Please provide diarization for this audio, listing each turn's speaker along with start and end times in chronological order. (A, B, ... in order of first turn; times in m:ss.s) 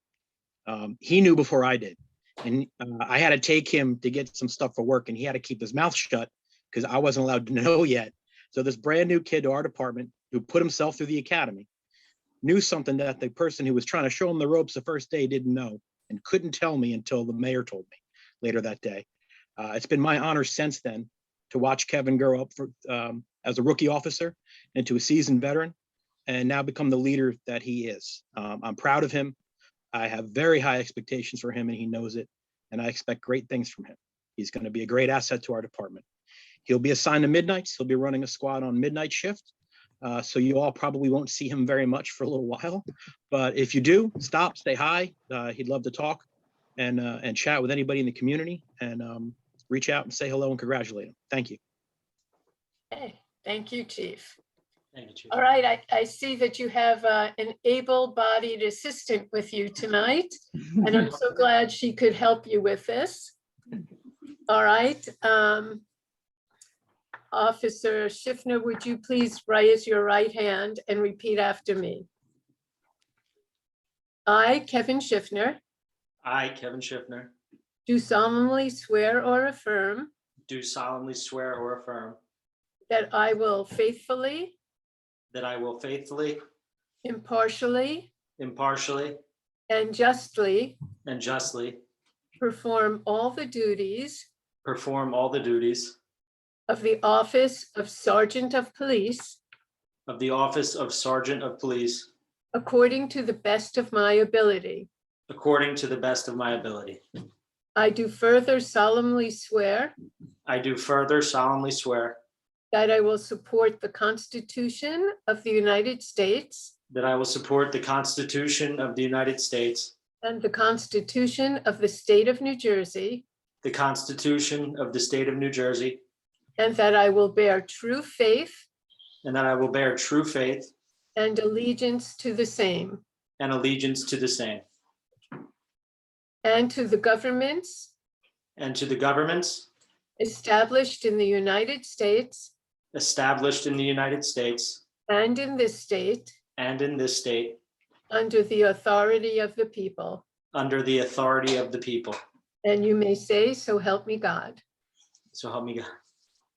0:00.7-0:11.7 A
0:12.4-0:19.0 A
0:19.6-0:25.7 A
0:26.3-0:29.4 A
0:29.9-0:36.0 A
0:36.7-0:39.5 A
0:40.0-0:46.2 A
0:46.8-0:51.6 A
0:52.9-0:54.4 B
0:54.9-0:55.4 C
0:55.3-1:03.4 B
1:04.5-1:05.8 B
1:07.3-1:12.1 B
1:14.3-1:15.6 B
1:16.2-1:17.3 C
1:17.9-1:20.1 B
1:20.5-1:22.2 C
1:22.9-1:24.6 B
1:25.3-1:26.4 C
1:27.0-1:28.1 B
1:28.4-1:29.2 C
1:29.7-1:30.8 B
1:31.1-1:31.8 C
1:32.4-1:34.3 B
1:34.6-1:36.0 C
1:36.7-1:39.4 B
1:40.1-1:42.1 C
1:42.5-1:44.9 B
1:45.3-1:47.0 C
1:47.8-1:49.9 B
1:50.5-1:52.2 C
1:52.7-1:56.7 B
1:56.9-1:59.9 C
2:00.2-2:03.2 B
2:03.6-2:06.0 C
2:06.6-2:08.7 B
2:09.2-2:10.7 C
2:11.2-2:13.0 B
2:13.4-2:14.6 C
2:16.4-2:17.9 B
2:18.6-2:19.7 C
2:20.2-2:22.5 B
2:22.9-2:24.8 C
2:25.1-2:26.3 B
2:26.6-2:27.6 C
2:28.1-2:30.2 B
2:30.5-2:32.2 C
2:32.6-2:34.6 B
2:35.3-2:35.9 C